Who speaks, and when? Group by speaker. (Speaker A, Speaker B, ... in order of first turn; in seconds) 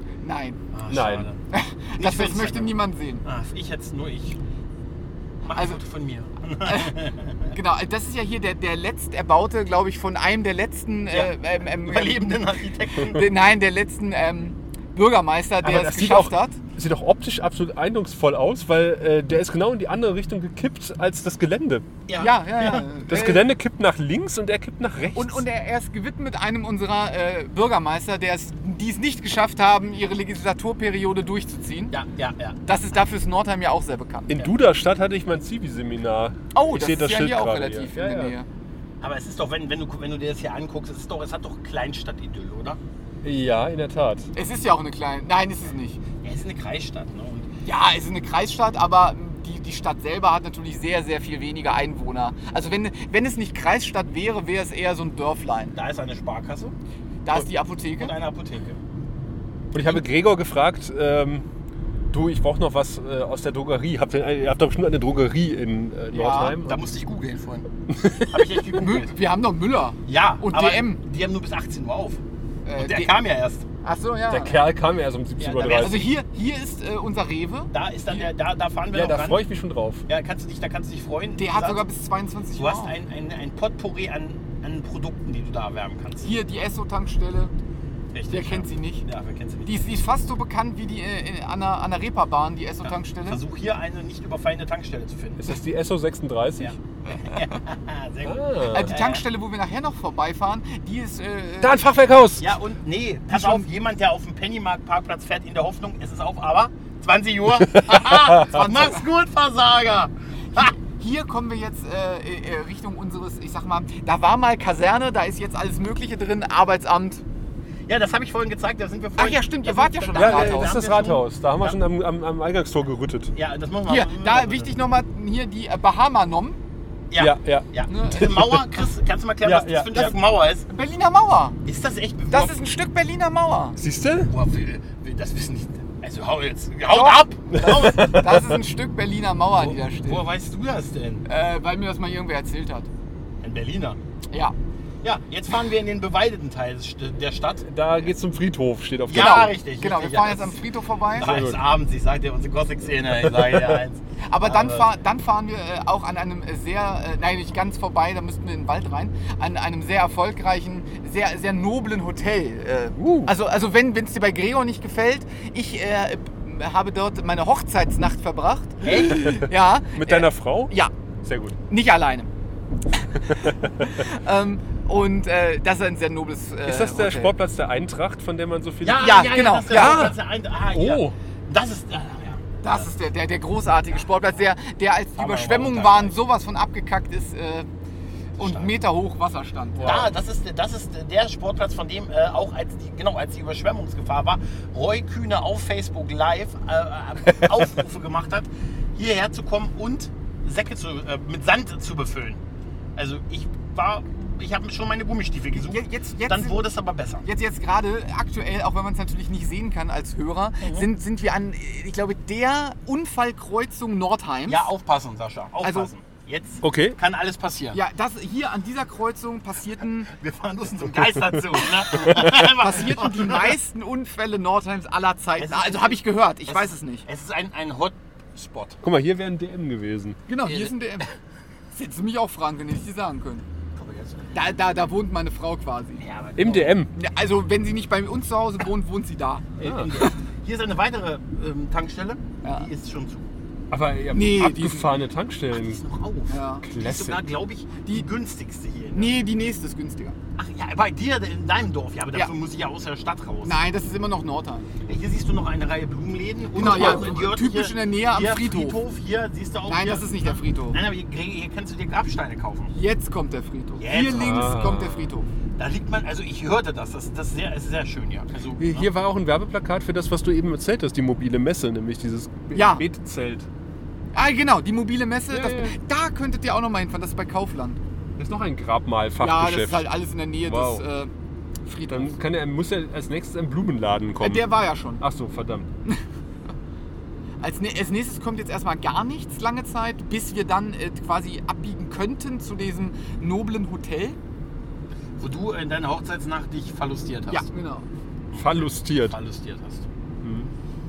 Speaker A: 0.2-0.6, 1.5-3.2, 6.6-12.3, 13.0-16.6, 22.2-23.5, 25.1-31.9, 32.6-34.5, 36.5-38.5, 44.3-46.0, 47.6-55.8, 57.2-58.1, 66.1-66.5, 68.8-71.0, 72.6-73.2, 73.8-74.7, 75.8-78.3, 81.4-82.9, 86.2-87.5, 88.3-89.1, 89.6-93.4, 97.1-97.6, 98.7-101.8, 103.3-103.6, 108.5-109.0, 110.5-117.2, 119.2-120.8, 123.8-126.6, 127.9-128.5, 130.7-131.6, 132.3-133.8, 136.9-140.3, 141.3-142.9, 149.1-151.3, 154.2-170.9, 171.7-172.3, 173.3-177.3, 179.0-180.1, 182.6-187.7, 188.4-190.0, 205.5-206.6, 207.2-214.7, 215.6-215.9, 217.7-220.1, 222.2-227.1, 230.3-231.1, 231.7-233.4, 234.3-236.0, 236.9-240.2, 242.4-242.7, 244.1-244.9, 246.3-246.7, 248.9-250.2, 253.4-254.8, 256.5-258.8, 259.7-260.8, 262.7-265.3, 272.5-272.8, 274.1-277.8, 279.2-281.1, 281.6-282.2, 284.2-285.0, 287.4-294.2, 297.3-297.9
Speaker B: 0.7-1.4, 2.0-4.4, 5.4-7.4, 11.1-13.2, 22.1-22.8, 31.9-32.6, 39.0-42.8, 46.2-47.5, 55.7-56.7, 58.0-58.8, 66.6-69.1, 70.0-72.2, 72.8-73.7, 75.4-76.1, 77.7-79.4, 80.1-81.8, 82.5-86.4, 88.1-89.9, 93.2-95.5, 96.6-99.2, 102.4-110.7, 117.9-121.8, 123.3-124.7, 127.1-130.7, 131.6-132.5, 134.3-138.2, 139.6-141.2, 143.4-144.0, 145.0-147.7, 149.1-154.9, 168.8-169.2, 178.8-182.9, 185.2-186.2, 188.4-188.7, 189.8-202.4, 202.9-207.2, 214.5-217.8, 220.1-223.6, 225.4-228.8, 230.4-230.7, 233.7-234.4, 236.0-236.8, 239.6-243.3, 245.5-249.2, 250.4-253.6, 254.8-262.7, 263.8-264.5, 265.6-268.9, 295.2-297.4, 298.3-299.9
Speaker C: 0.9-1.3, 15.6-21.8, 23.1-25.4, 34.3-38.3, 43.2-44.3, 59.7-61.4, 62.1-66.8, 67.9-68.4, 74.3-76.1, 78.9-80.0, 95.4-96.8, 98.2-98.9, 101.6-102.5, 107.7-108.6, 120.1-123.3, 127.2-128.6, 129.4-130.1, 133.8-134.3, 137.5-138.6, 147.7-149.5, 151.2-151.6, 153.2-153.8, 163.0-163.3, 168.9-171.6, 176.6-180.2, 180.7-181.2, 189.7-190.1, 216.6-217.0, 222.1-222.4, 228.8-230.2, 236.4-236.9, 239.6-239.9, 243.7-245.8, 246.6-247.2, 256.7-257.0, 264.1-265.1, 268.6-273.5, 275.3-275.8, 278.2-279.9, 280.4-280.8, 281.9-285.7, 298.3-299.2, 300.2-300.5